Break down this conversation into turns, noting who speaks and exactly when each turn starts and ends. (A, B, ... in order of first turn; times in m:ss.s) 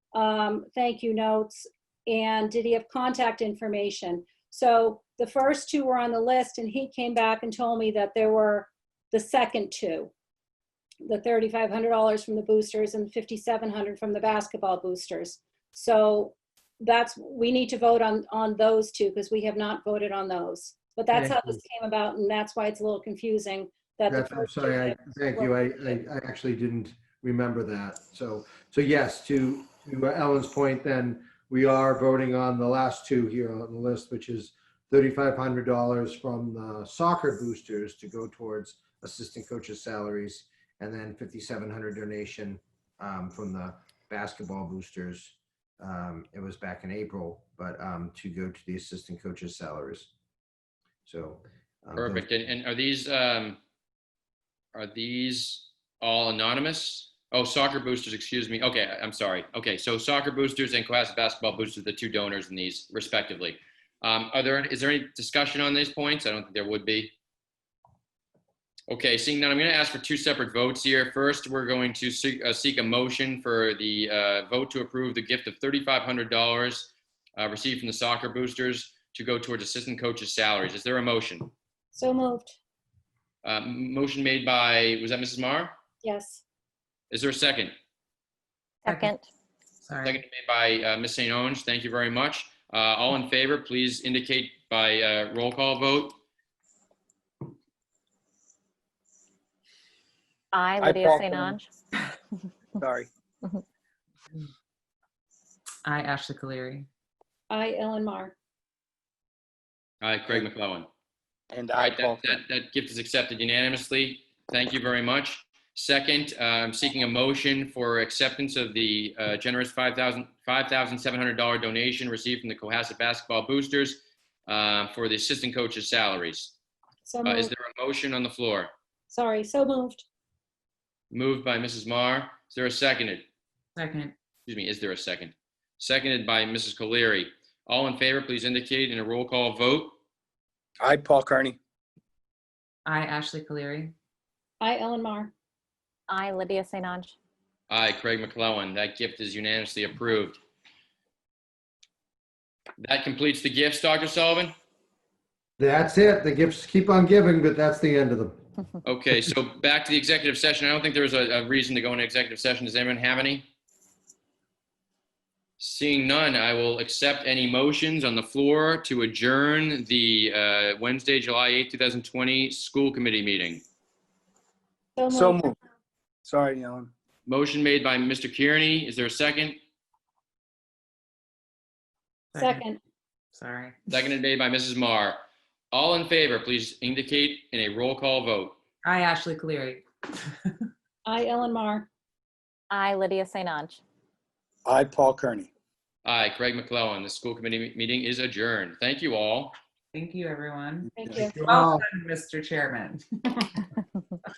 0:00.1-0:10.1 A
0:11.0-0:26.0 A
0:21.1-0:21.6 B
0:24.1-0:50.1 B
0:51.1-0:52.3 B
0:52.0-0:53.6 C
0:54.7-1:07.1 C
1:08.9-1:21.5 C
1:21.9-1:22.6 A
1:23.4-1:25.7 C
1:26.0-1:26.4 A
1:27.1-1:27.7 C
1:28.8-1:29.3 D
1:28.9-1:29.1 E
1:29.8-1:30.2 E
1:30.0-1:36.2 C
1:40.5-1:41.7 D
1:40.8-1:41.6 F
1:42.8-1:43.1 F
1:45.8-1:46.9 E
1:47.5-1:48.4 A
1:50.0-1:50.9 C
1:51.5-1:52.4 F
1:51.8-2:06.5 C
2:07.0-2:07.5 A
2:07.2-2:08.7 C
2:09.1-2:10.1 A
2:11.1-2:13.2 C
2:13.8-2:14.2 E
2:14.5-2:20.0 C
2:20.8-2:21.6 F
2:22.9-2:23.9 E
2:24.6-2:25.3 A
2:26.1-2:27.2 D
2:27.7-2:30.4 C
2:32.8-2:34.5 C
2:35.6-2:38.4 B
2:38.8-2:43.4 C
2:45.6-2:53.6 C
2:55.0-2:55.5 A
2:55.1-2:55.6 F
2:56.2-2:56.9 F
2:57.3-2:59.6 C
3:02.3-3:02.6 E
3:02.4-3:02.8 A
3:03.4-3:03.9 E
3:03.9-3:05.2 C
3:05.7-3:08.6 C
3:08.8-3:09.9 E
3:11.1-3:11.9 A
3:12.7-3:13.8 D
3:14.7-3:15.5 F
3:16.0-3:19.6 C
3:19.9-3:23.7 E
3:21.0-3:21.4 A
3:21.1-3:21.8 B